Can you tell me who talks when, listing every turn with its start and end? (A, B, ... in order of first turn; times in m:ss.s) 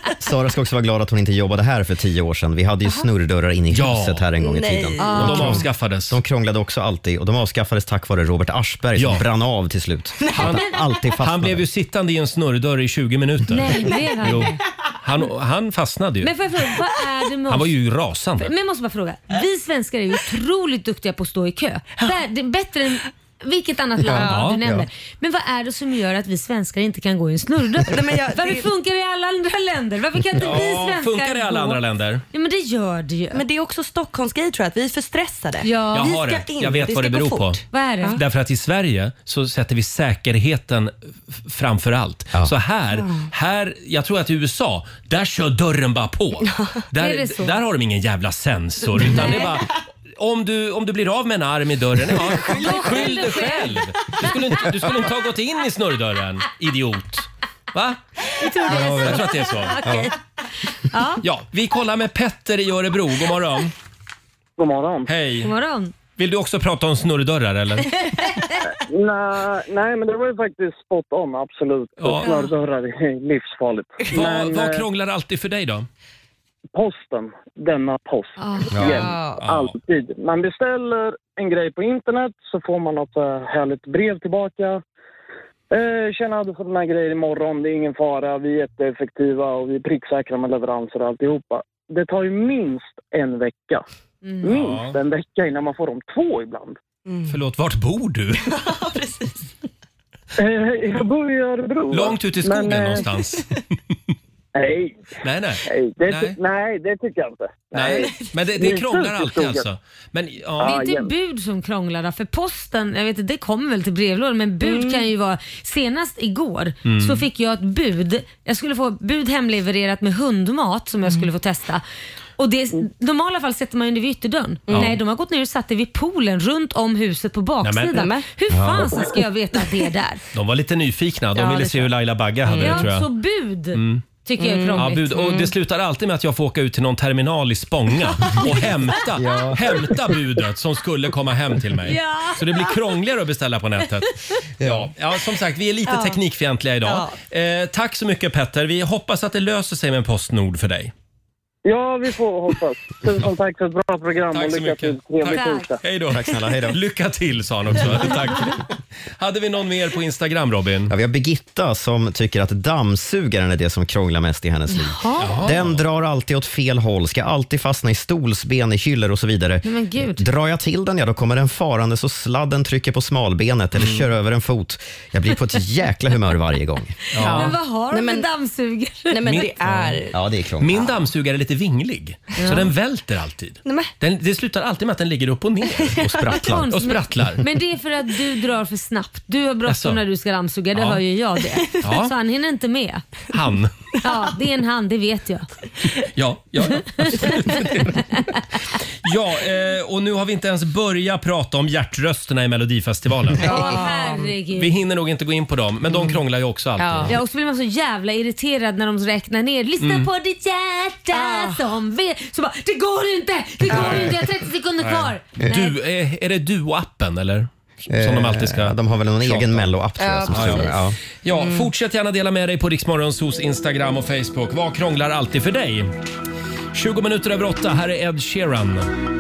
0:00.2-0:11.7 A
0:03.7-0:04.2 B
0:04.4-0:05.6 C
0:05.0-0:05.6 D
0:05.1-0:06.2 B
0:09.0-0:09.3 B
0:10.2-0:10.7 C
0:10.4-0:10.7 B
0:11.2-0:16.3 B
0:13.5-0:14.6 D
0:16.2-0:17.7 D
0:17.5-0:18.5 B
0:18.4-0:31.8 D
0:24.1-0:24.9 A
0:24.1-0:24.6 C
0:24.2-0:24.6 B
0:27.8-0:28.7 C
0:30.4-0:32.2 B
0:32.3-0:33.4 D
0:33.3-0:38.2 C
0:35.6-0:36.1 D
0:35.9-0:58.0 B
0:37.7-0:38.2 D
0:42.9-0:43.3 C
0:47.0-0:47.5 D
0:52.4-0:53.0 C
0:52.5-0:53.8 D
0:58.4-1:00.1 D
0:58.6-1:00.1 B
1:00.7-1:01.2 D
1:01.2-1:03.7 B
1:04.6-1:05.1 E
1:05.0-1:05.5 B
1:05.4-1:05.9 D
1:06.2-1:07.9 B
1:08.9-1:14.8 E
1:12.0-1:12.3 B
1:12.2-1:12.5 C
1:14.1-1:15.9 B
1:16.7-1:24.8 E
1:18.4-1:18.8 D
1:18.7-1:19.1 A
1:18.8-1:19.4 C
1:19.4-1:19.7 B
1:25.7-1:33.8 E
1:34.2-1:34.5 D
1:34.4-1:36.8 E
1:34.5-1:35.0 B
1:37.0-1:37.4 C
1:37.3-1:38.5 B
1:38.4-1:39.5 C
1:40.4-1:43.0 E
1:41.9-1:43.6 B
1:44.6-1:49.6 E
1:45.2-1:46.4 B
1:47.7-1:50.8 B
1:47.9-1:48.3 C
1:50.6-2:01.8 D
1:50.6-1:51.1 E
1:54.6-1:55.0 C
1:56.8-1:57.3 B
2:02.4-2:10.2 D
2:07.6-2:08.1 B
2:07.9-2:08.2 C
2:08.5-2:08.9 A
2:10.3-2:13.1 B
2:11.4-2:11.9 C
2:12.5-2:12.8 C
2:12.6-2:15.3 D
2:13.7-2:14.0 B
2:14.4-2:15.5 C
2:14.7-2:30.9 B
2:19.2-2:19.7 A
2:21.9-2:22.4 D
2:24.6-2:24.9 A
2:25.9-2:26.2 C
2:26.8-2:27.2 C
2:31.6-2:35.8 E
2:34.3-2:38.6 B
2:35.3-2:35.7 D
2:36.1-2:36.8 A
2:37.7-2:38.1 A
2:39.2-2:40.9 B
2:40.9-2:57.0 A
2:44.7-2:45.5 D
2:45.2-2:45.8 B
2:49.6-2:50.2 D
2:53.8-2:54.1 B
2:57.1-2:57.5 B
2:57.2-2:59.2 D
2:57.2-2:58.3 C
2:59.1-3:00.2 C
2:59.2-3:00.0 B
3:00.1-3:00.9 A
3:00.6-3:07.4 B
3:02.4-3:02.7 D
3:03.6-3:03.9 C
3:05.8-3:06.2 C
3:06.0-3:06.7 A
3:06.3-3:13.0 D
3:09.7-3:10.0 B
3:10.7-3:11.0 B
3:11.8-3:12.1 B
3:13.3-3:13.7 B
3:14.0-3:15.4 D
3:16.1-3:18.0 B
3:17.0-3:18.2 D
3:19.0-3:24.0 B
3:23.4-3:24.3 C
3:23.4-3:24.7 D
3:24.5-3:27.2 B
3:26.8-3:27.1 C
3:27.0-3:35.7 D
3:29.8-3:30.1 B
3:31.1-3:31.6 C
3:33.7-3:34.1 B
3:33.8-3:34.0 C
3:34.8-3:39.6 B
3:37.9-3:41.0 A
3:40.0-3:40.8 C
3:40.3-3:45.9 B
3:41.3-3:41.7 C
3:46.7-3:48.9 B